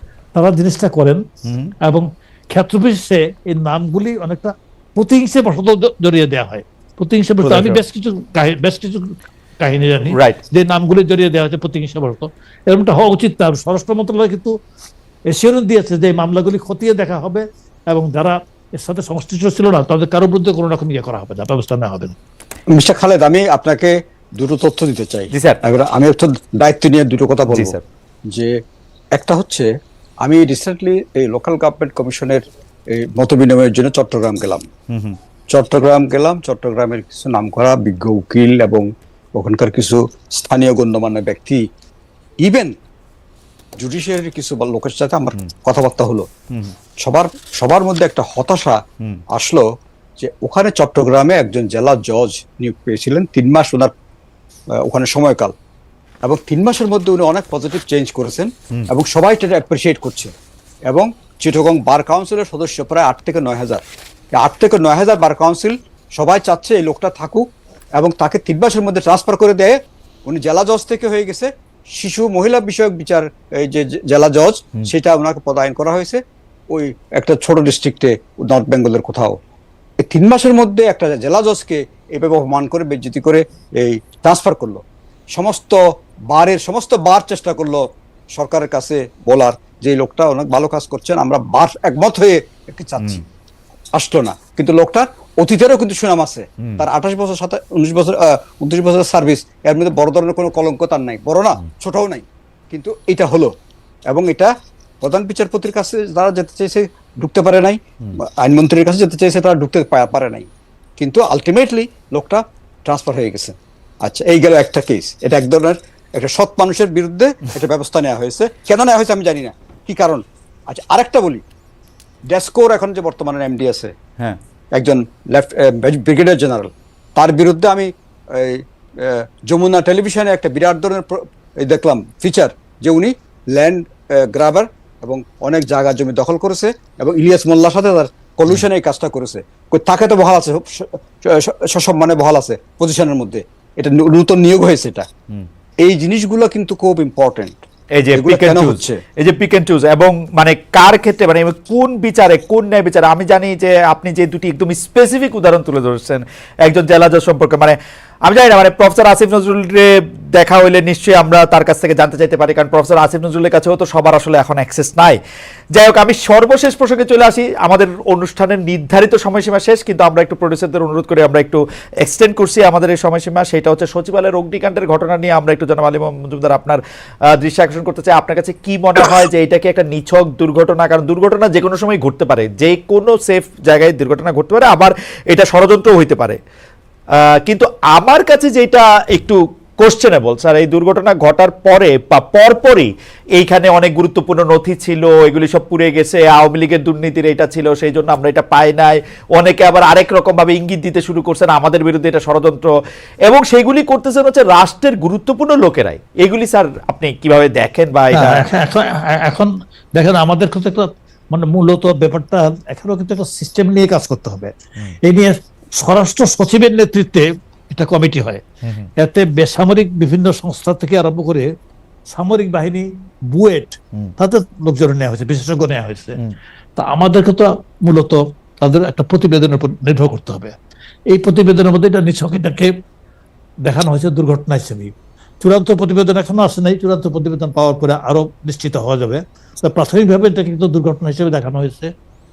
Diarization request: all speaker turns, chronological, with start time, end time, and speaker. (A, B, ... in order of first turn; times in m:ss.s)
0:00.4-0:01.2 A
0:01.4-0:01.8 B
0:01.8-0:09.1 A
0:07.4-0:07.8 B
0:09.6-0:14.6 A
0:10.1-0:10.4 B
0:15.3-0:22.2 A
0:22.7-0:27.8 C
0:25.3-0:25.6 B
0:27.5-0:27.8 B
0:29.2-0:29.7 C
0:30.2-0:34.7 C
0:34.9-0:35.2 B
0:35.5-0:41.6 C
0:42.4-0:42.7 C
0:43.8-0:46.3 C
0:47.0-0:48.8 C
0:49.3-0:49.7 C
0:50.2-0:53.9 C
0:54.8-0:55.5 C
0:56.2-1:00.3 C
1:00.9-1:07.4 C
1:08.0-1:16.2 C
1:16.7-1:19.4 C
1:20.0-1:24.8 C
1:25.3-1:33.2 C
1:33.0-1:33.2 B
1:34.0-1:43.5 C
1:36.6-1:36.9 B
1:44.1-1:44.5 C
1:45.0-2:01.4 C
2:02.3-2:03.9 C
2:04.8-2:25.1 C
2:25.8-2:27.6 C
2:28.0-2:45.2 B
2:28.1-2:29.0 C
2:45.7-2:56.8 B
2:57.3-3:06.4 B
3:07.4-3:22.7 B
3:23.2-3:28.5 B
3:28.2-3:34.5 A
3:35.0-3:38.4 A
3:38.6-3:38.9 B
3:39.0-3:41.5 A
3:42.1-3:46.2 A
3:46.8-3:50.5 A
3:51.1-3:52.7 A
3:53.7-3:54.9 A
3:55.4-4:01.9 A